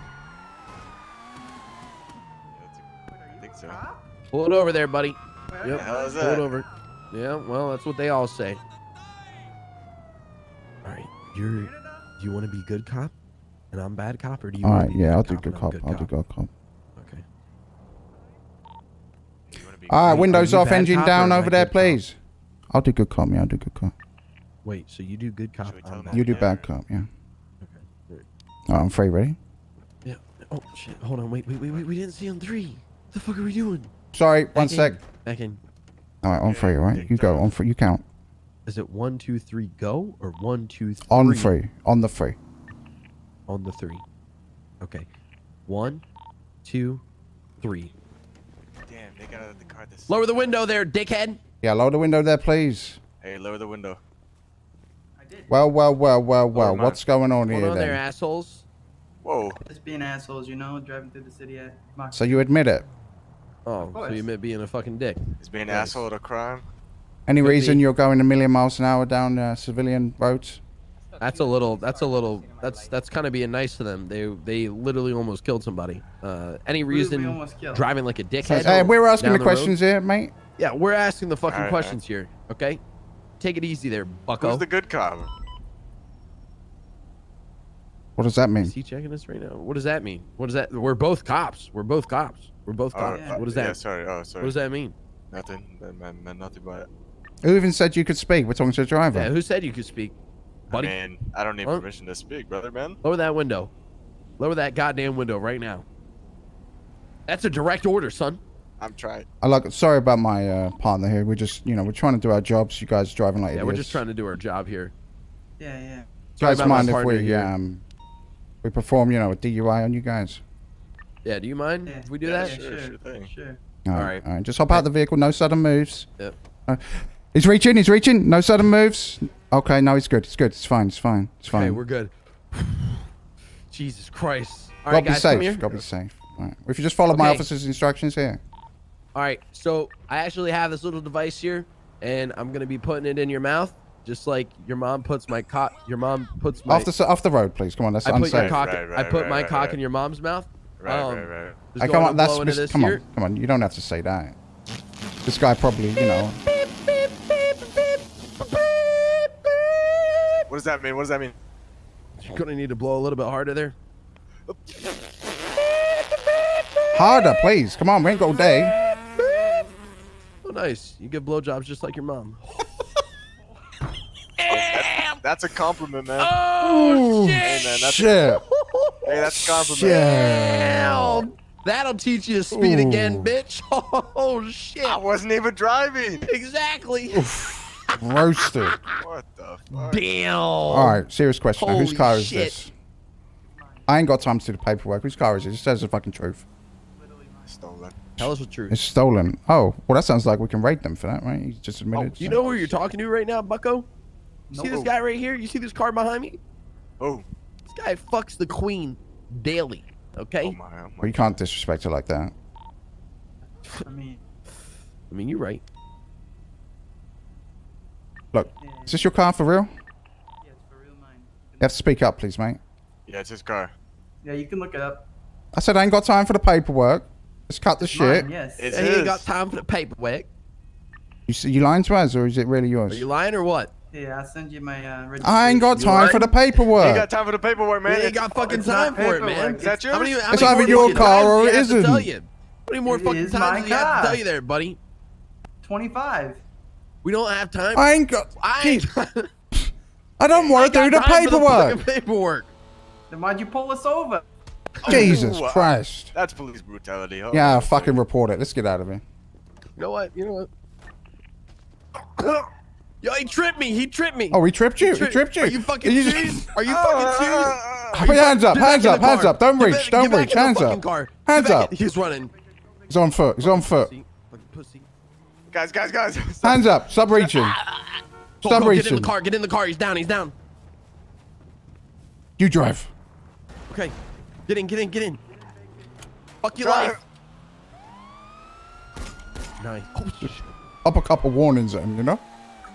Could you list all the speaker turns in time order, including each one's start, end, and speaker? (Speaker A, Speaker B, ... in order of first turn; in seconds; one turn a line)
Speaker A: 2.5-3.8
Speaker B: 3.1-4.0
Speaker C: 4.3-8.6
Speaker B: 5.5-6.4
Speaker A: 5.7-6.5
Speaker C: 10.8-13.1
Speaker B: 11.5-12.1
Speaker C: 13.7-16.1
Speaker D: 14.6-16.5
Speaker C: 16.9-17.2
Speaker A: 19.5-20.3
Speaker D: 19.9-22.2
Speaker C: 20.0-22.0
Speaker D: 22.7-23.9
Speaker C: 24.6-26.5
Speaker A: 25.6-26.7
Speaker D: 26.1-27.1
Speaker C: 27.6-28.2
Speaker D: 28.7-29.4
Speaker C: 30.0-33.9
Speaker D: 34.1-35.0
Speaker C: 34.5-35.6
Speaker D: 36.2-38.0
Speaker A: 36.4-37.5
Speaker C: 38.6-41.5
Speaker D: 41.1-42.4
Speaker C: 43.5-44.0
Speaker C: 44.8-45.1
Speaker C: 45.7-46.0
Speaker C: 46.6-47.0
Speaker C: 47.6-47.9
Speaker A: 48.9-50.6
Speaker C: 50.1-51.4
Speaker D: 51.6-53.0
Speaker A: 53.2-54.0
Speaker B: 55.2-55.6
Speaker D: 55.5-58.0
Speaker A: 56.5-57.0
Speaker C: 57.5-58.6
Speaker A: 59.2-59.6
Speaker B: 59.6-62.4
Speaker D: 62.1-62.9
Speaker C: 63.6-66.1
Speaker B: 63.8-64.3
Speaker A: 65.4-66.7
Speaker D: 67.3-70.6
Speaker C: 67.4-67.8
Speaker C: 71.2-79.8
Speaker B: 76.9-77.9
Speaker D: 78.4-80.3
Speaker C: 80.6-82.8
Speaker A: 81.5-82.0
Speaker C: 83.4-84.7
Speaker A: 84.4-85.3
Speaker D: 88.2-88.7
Speaker C: 88.6-93.8
Speaker A: 92.9-94.5
Speaker B: 93.0-93.4
Speaker C: 94.4-94.9
Speaker A: 95.3-96.9
Speaker D: 97.4-99.3
Speaker C: 99.1-100.2
Speaker A: 100.7-103.0
Speaker C: 100.7-101.0
Speaker C: 103.0-103.7
Speaker C: 104.4-105.8
Speaker C: 107.3-108.4
Speaker A: 108.8-109.3
Speaker D: 109.4-114.0
Speaker C: 113.5-114.9
Speaker B: 115.6-116.1
Speaker C: 116.3-117.5
Speaker D: 116.4-117.8
Speaker D: 118.6-120.4
Speaker C: 121.2-122.6
Speaker B: 121.8-123.6
Speaker A: 122.2-123.3
Speaker D: 123.8-126.1
Speaker C: 123.9-124.8
Speaker D: 126.7-131.8
Speaker C: 131.5-133.1
Speaker C: 133.7-135.8
Speaker D: 134.9-138.4
Speaker C: 137.1-137.4
Speaker C: 139.1-146.9
Speaker D: 146.7-148.6
Speaker C: 148.0-153.0
Speaker A: 148.2-149.8
Speaker A: 150.8-151.6
Speaker D: 151.8-154.3
Speaker D: 155.2-156.4
Speaker C: 156.7-157.7
Speaker C: 160.0-160.3
Speaker A: 160.5-161.3
Speaker C: 162.2-163.8
Speaker D: 166.9-168.7
Speaker C: 170.4-172.9
Speaker C: 174.4-175.2
Speaker A: 174.5-176.3
Speaker C: 176.2-177.7
Speaker D: 176.6-178.4
Speaker A: 177.4-178.2
Speaker C: 178.3-185.0
Speaker A: 179.0-180.0
Speaker D: 179.7-181.3
Speaker D: 182.5-183.3
Speaker A: 184.8-186.2
Speaker C: 186.2-187.3
Speaker D: 187.1-188.8
Speaker C: 188.5-189.0
Speaker A: 189.0-190.1
Speaker C: 189.8-191.1
Speaker D: 190.7-192.7
Speaker C: 191.6-192.6
Speaker B: 193.4-193.9
Speaker D: 193.9-196.4
Speaker B: 196.9-197.7
Speaker A: 197.4-198.0
Speaker C: 198.2-198.8
Speaker D: 198.2-202.4
Speaker C: 201.9-203.9
Speaker A: 202.0-202.8
Speaker B: 204.5-204.9
Speaker C: 204.5-206.4
Speaker A: 207.0-207.2
Speaker C: 207.7-210.6
Speaker A: 210.4-211.4
Speaker D: 211.0-212.3
Speaker B: 213.8-214.2
Speaker C: 215.1-215.6
Speaker D: 218.3-219.7
Speaker B: 218.6-219.1
Speaker B: 220.4-221.8
Speaker D: 221.6-222.6
Speaker A: 223.1-223.7
Speaker B: 224.2-225.1
Speaker D: 225.5-228.3
Speaker B: 227.8-228.7
Speaker A: 228.6-229.3
Speaker C: 228.7-230.3
Speaker D: 231.3-233.1
Speaker C: 232.9-233.7
Speaker B: 233.9-236.3
Speaker D: 235.2-237.1
Speaker C: 235.9-236.3
Speaker A: 236.7-238.3
Speaker C: 237.8-244.8
Speaker B: 238.3-239.8
Speaker A: 239.6-240.7
Speaker D: 240.3-242.1
Speaker B: 240.3-241.2
Speaker B: 242.8-244.2
Speaker B: 245.6-246.4
Speaker C: 247.0-249.3
Speaker D: 247.7-248.9
Speaker D: 250.2-251.8
Speaker C: 250.5-252.5
Speaker B: 253.1-254.2
Speaker A: 254.8-258.0
Speaker B: 254.8-255.1
Speaker D: 254.8-256.1
Speaker D: 257.3-259.0
Speaker C: 259.8-260.5
Speaker C: 262.1-262.5
Speaker C: 263.0-272.3
Speaker D: 264.3-266.5
Speaker A: 266.6-268.0
Speaker D: 267.9-271.7
Speaker D: 272.9-273.9
Speaker C: 273.4-274.9
Speaker A: 275.5-276.7
Speaker D: 276.4-277.6
Speaker C: 277.3-280.3
Speaker D: 278.4-279.1
Speaker D: 282.4-282.9
Speaker C: 283.7-283.9
Speaker C: 284.5-285.2
Speaker C: 286.4-287.0
Speaker A: 286.6-287.0
Speaker C: 289.6-290.5
Speaker D: 290.8-292.2